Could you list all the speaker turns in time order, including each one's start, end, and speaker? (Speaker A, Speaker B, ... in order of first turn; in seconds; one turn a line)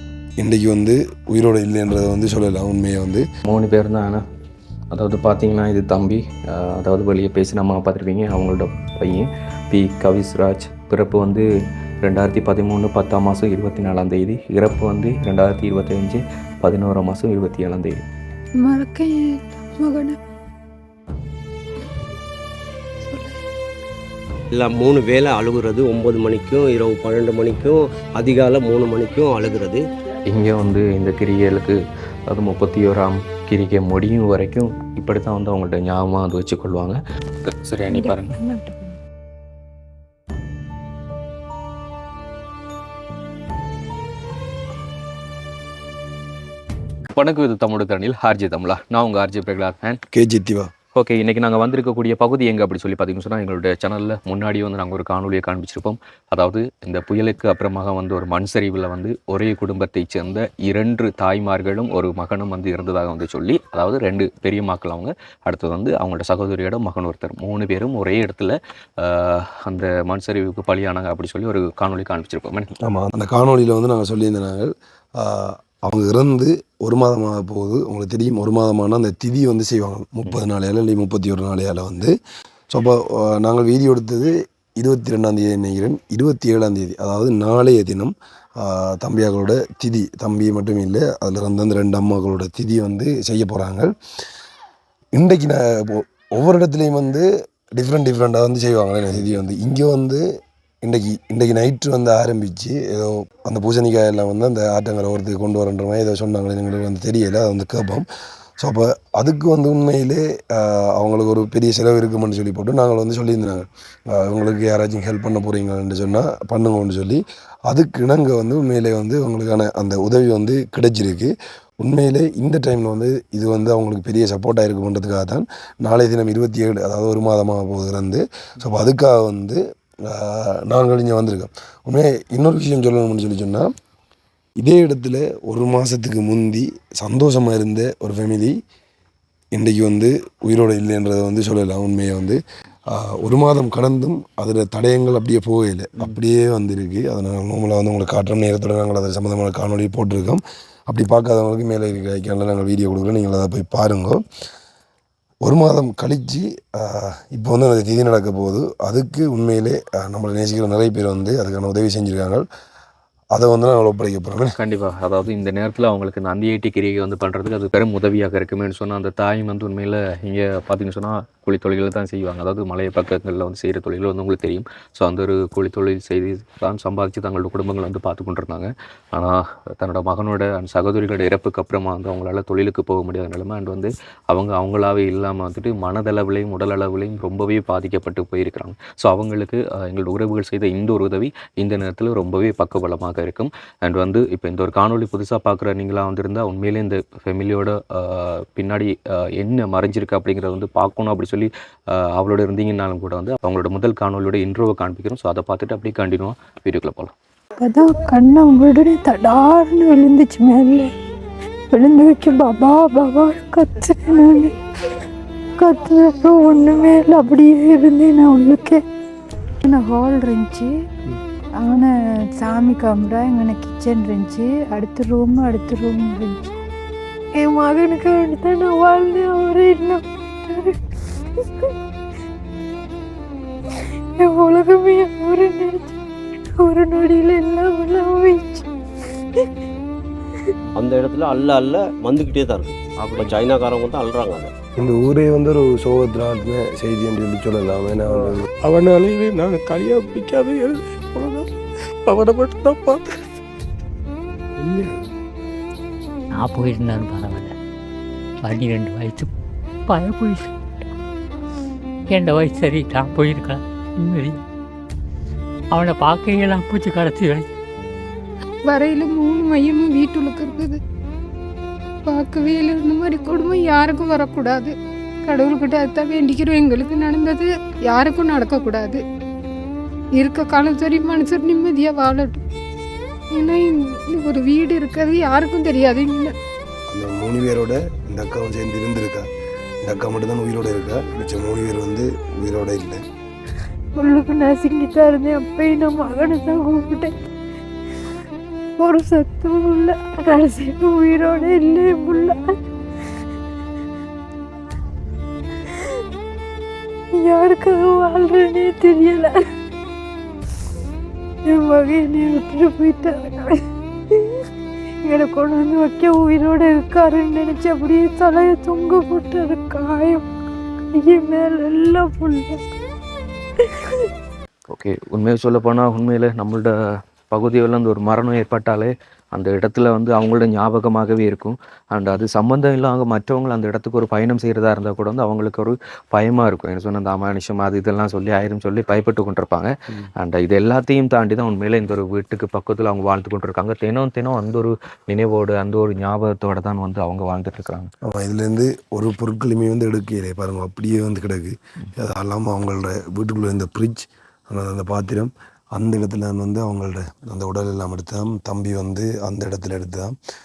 Speaker A: 0.4-3.2
Speaker B: 3.4-4.2
Speaker B: 4.9-11.4
Speaker B: 12.0-18.0
Speaker C: 18.6-20.2
Speaker C: 23.0-23.4
Speaker D: 24.5-29.8
Speaker B: 30.3-38.4
Speaker C: 37.9-39.0
Speaker B: 47.1-50.0
Speaker A: 50.1-50.7
Speaker B: 50.9-72.7
Speaker A: 72.8-82.1
Speaker A: 82.7-93.9
Speaker A: 95.1-97.2
Speaker A: 97.8-100.2
Speaker A: 100.8-108.0
Speaker A: 108.6-121.3
Speaker A: 121.8-133.7
Speaker A: 134.6-138.6
Speaker A: 139.5-142.4
Speaker A: 142.9-154.2
Speaker A: 155.4-162.4
Speaker A: 163.3-164.5
Speaker B: 164.6-207.1
Speaker C: 207.6-210.9
Speaker C: 211.7-214.5
Speaker C: 215.6-218.8
Speaker C: 219.6-220.7
Speaker C: 221.6-226.6
Speaker C: 227.3-230.8
Speaker C: 234.2-236.0
Speaker C: 236.6-238.7
Speaker D: 240.7-244.5
Speaker B: 243.0-243.3
Speaker A: 244.8-248.5
Speaker E: 248.6-251.5
Speaker E: 252.1-253.0
Speaker F: 256.3-257.5
Speaker F: 258.4-259.3
Speaker F: 259.9-260.5
Speaker F: 262.1-264.4
Speaker F: 265.7-267.5
Speaker G: 268.6-270.8
Speaker G: 272.1-274.7
Speaker G: 275.2-279.0
Speaker G: 280.2-282.4
Speaker G: 283.3-286.3
Speaker A: 286.9-289.3
Speaker A: 289.8-293.0
Speaker C: 293.9-297.1
Speaker C: 298.8-302.4
Speaker C: 307.2-309.5
Speaker C: 311.4-314.4
Speaker C: 315.0-320.3
Speaker C: 320.9-322.7
Speaker C: 323.6-324.1
Speaker B: 324.7-326.7
Speaker B: 327.3-347.9
Speaker A: 348.0-360.1